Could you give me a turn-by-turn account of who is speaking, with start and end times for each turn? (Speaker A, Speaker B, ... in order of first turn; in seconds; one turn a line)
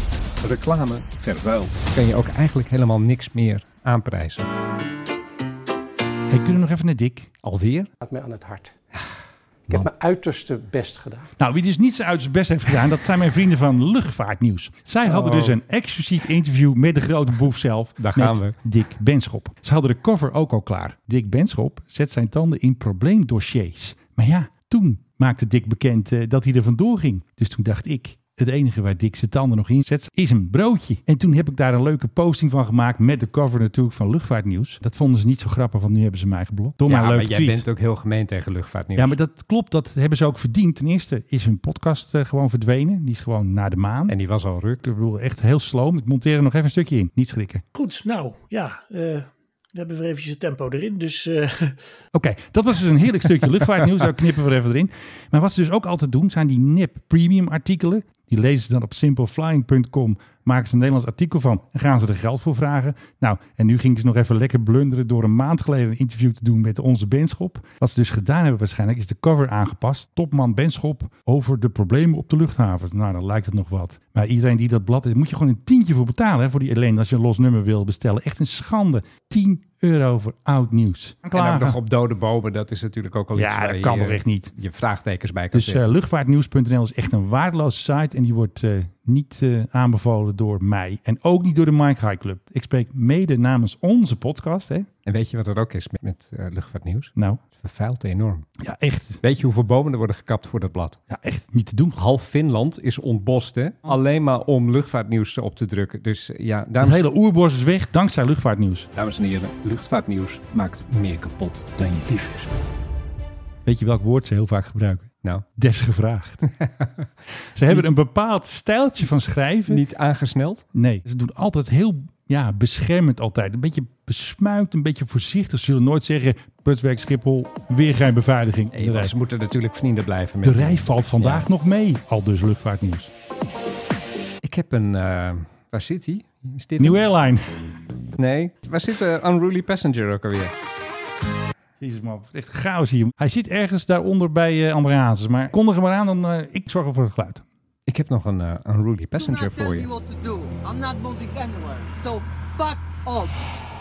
Speaker A: 0.4-4.4
Speaker B: 6.3-7.3
Speaker A: 7.4-7.9
Speaker C: 8.0-8.7
Speaker C: 9.7-11.3
Speaker B: 11.4-37.6
Speaker A: 15.1-15.6
Speaker A: 18.0-18.6
Speaker A: 36.9-39.2
Speaker B: 39.0-44.1
Speaker A: 44.1-44.8
Speaker B: 44.8-47.6
Speaker D: 47.7-51.8
Speaker B: 52.1-81.8
Speaker A: 81.3-85.9
Speaker B: 83.3-84.5
Speaker B: 85.5-94.9
Speaker A: 95.1-98.5
Speaker B: 98.6-99.2
Speaker A: 99.2-101.0
Speaker B: 101.1-102.0
Speaker A: 102.0-107.0
Speaker B: 106.8-108.9
Speaker A: 109.0-112.5
Speaker B: 113.7-116.4
Speaker A: 116.6-116.9
Speaker B: 117.5-119.8
Speaker A: 119.7-120.7
Speaker B: 120.7-129.1
Speaker A: 128.7-131.5
Speaker B: 130.4-133.1
Speaker A: 134.4-137.0
Speaker B: 136.8-137.7
Speaker A: 138.2-140.5
Speaker B: 141.8-147.4
Speaker A: 147.9-149.9
Speaker E: 149.2-153.3